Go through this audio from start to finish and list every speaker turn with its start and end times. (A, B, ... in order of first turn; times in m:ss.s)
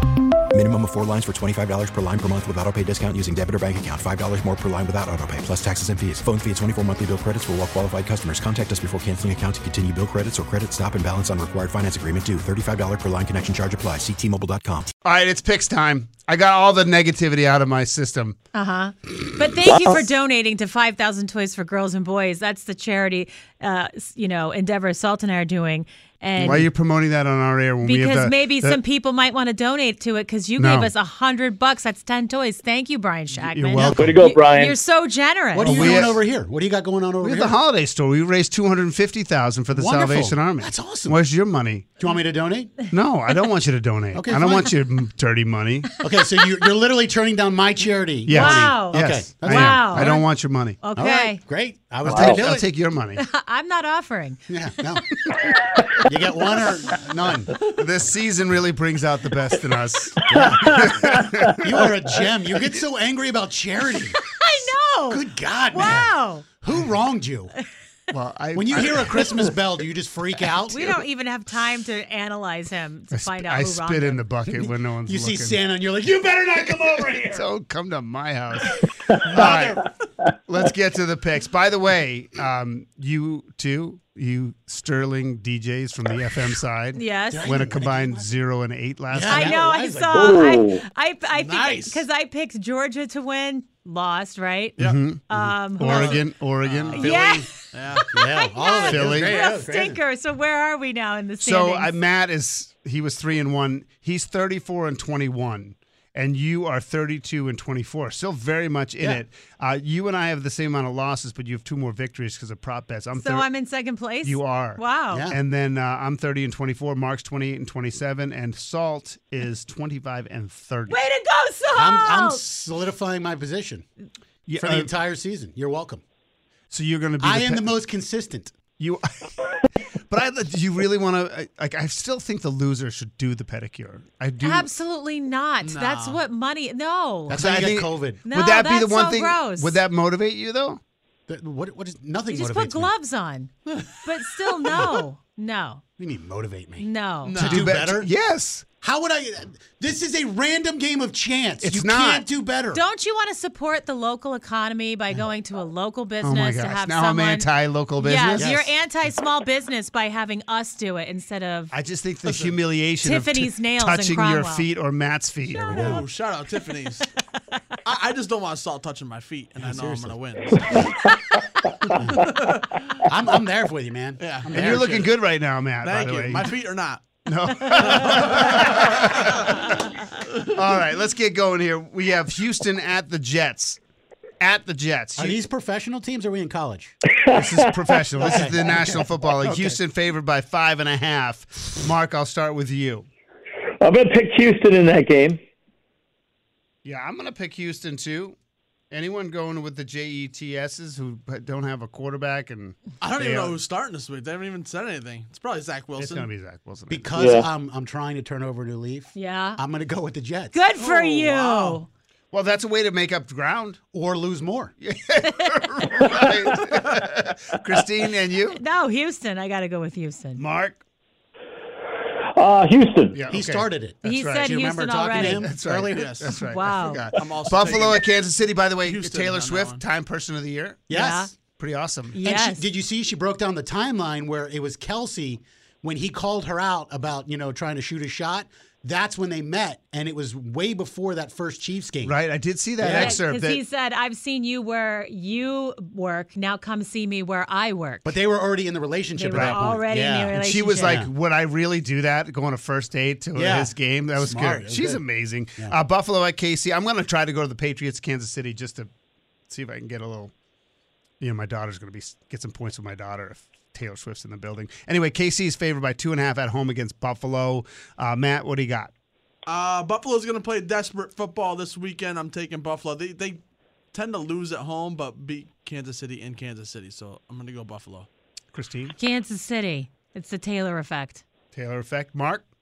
0:00.5-0:14.9 A
0:15.0-0:18.4 B
0:18.5-0:26.7 C
0:19.6-0:20.0 D
0:26.4-0:28.8 B
0:27.8-0:36.1 C
0:30.6-0:30.9 B
0:33.4-0:34.2 B
0:33.7-0:34.0 E
0:34.0-0:34.8 D
0:35.5-0:37.6 E
0:35.6-0:36.2 B
0:37.2-0:42.0 B
0:39.7-0:41.2 E
0:42.0-0:42.8 E
0:42.9-0:45.9 B
0:44.1-0:44.7 E
0:46.0-0:50.2 E
0:48.2-0:50.8 B
0:48.3-0:51.4 C
0:50.9-0:52.6 E
0:52.0-0:53.2 B
0:52.1-0:52.4 D
0:53.2-0:54.6 C
0:54.5-0:55.3 E
0:56.1-0:57.6 E
0:57.7-1:01.5 B
1:00.3-1:01.1 E
1:01.6-1:04.2 E
1:04.1-1:06.4 C
1:05.1-1:07.5 E
1:08.1-1:09.4 B
1:08.5-1:11.0 E
1:10.7-1:14.3 C
1:13.1-1:15.6 B
1:14.5-1:17.4 E
1:17.2-1:18.8 B
1:19.3-1:19.9 E
1:19.3-1:19.8 B
1:20.5-1:29.6 B
1:26.9-1:27.6 C
1:27.3-1:28.3 E
1:29.1-1:30.5 E
1:29.2-1:36.2 C
1:30.2-1:30.8 D
1:31.3-1:32.0 F
1:34.8-1:37.1 B
1:35.8-1:36.2 E
1:35.8-1:38.0 F
1:36.9-1:37.5 E
1:36.9-1:42.0 C
1:38.1-1:40.0 E
1:38.9-1:39.4 B
1:41.4-1:53.5 B
1:53.1-1:55.3 C
1:54.2-2:01.0 B
1:55.1-1:55.4 E
2:00.9-2:02.4 C
2:01.7-2:03.8 E
2:04.5-2:04.9 B
2:04.6-2:06.0 E
2:06.7-2:07.8 B
2:07.2-2:08.5 E
2:08.8-2:09.5 B
2:10.1-2:14.7 B
2:14.4-2:17.4 C
2:15.6-2:16.2 F
2:17.3-2:18.2 E
2:17.3-2:20.8 B
2:18.2-2:19.8 C
2:21.3-2:22.9 E
2:22.3-2:23.5 C
2:23.7-2:24.8 F
2:24.0-2:25.8 C
2:26.0-2:28.1 E
2:26.8-2:27.4 C
2:27.2-2:27.6 F
2:27.4-2:28.6 B
2:28.8-2:32.8 E
2:31.6-2:32.3 B
2:32.7-2:41.7 C
2:36.2-2:38.5 B
2:38.4-2:38.8 E
2:41.7-2:45.9 B
2:42.2-2:42.6 F
2:43.0-2:44.7 C
2:45.5-2:46.1 E
2:45.8-2:47.1 F
2:47.8-2:50.9 F
2:49.6-2:50.2 E
2:52.0-2:52.3 E
2:52.2-2:52.8 F
2:53.0-2:55.1 E
2:54.2-2:55.2 F
2:54.5-2:56.6 B
2:55.8-2:57.0 F
2:57.2-2:59.8 B
2:57.6-2:59.4 F
3:00.5-3:03.8 B
3:04.4-3:05.4 B
3:05.2-3:07.0 E
3:07.1-3:07.6 D
3:07.4-3:13.1 B
3:08.2-3:09.8 E
3:13.8-3:15.4 D
3:16.8-3:18.4 B
3:18.9-3:23.6 B
3:23.0-3:26.3 F
3:26.0-3:27.2 B
3:26.9-3:30.6 E
3:27.2-3:27.4 D
3:29.1-3:29.6 C
3:30.5-3:31.8 C
3:30.8-3:31.8 F
3:32.3-3:33.8 B
3:33.9-3:34.7 E
3:34.8-3:38.6 B
3:38.5-3:40.4 C
3:40.4-3:40.8 B
3:42.3-3:43.2 D
3:43.1-3:44.5 B
3:43.3-3:46.2 E
3:44.0-3:45.5 C
3:45.1-3:50.8 B
3:45.9-3:46.5 F
3:46.3-3:47.1 C
3:47.2-3:48.1 F
3:48.8-3:49.8 F
3:50.9-3:51.3 E
3:50.9-3:51.3 C
3:51.6-3:52.2 B
3:52.1-3:52.6 C
3:52.2-4:02.2 E
4:02.0-4:03.6 B
4:02.8-4:03.2 E
4:02.8-4:08.1 C
4:08.0-4:11.1 E
4:09.2-4:11.0 C
4:09.3-4:09.7 B
4:10.4-4:18.9 B
4:13.3-4:15.8 E
4:19.5-4:20.3 B
4:21.2-4:28.9 B
4:29.5-4:33.4 F
4:33.9-4:38.1 F
4:38.5-4:39.0 B
4:39.0-4:41.2 C
4:41.5-4:42.4 B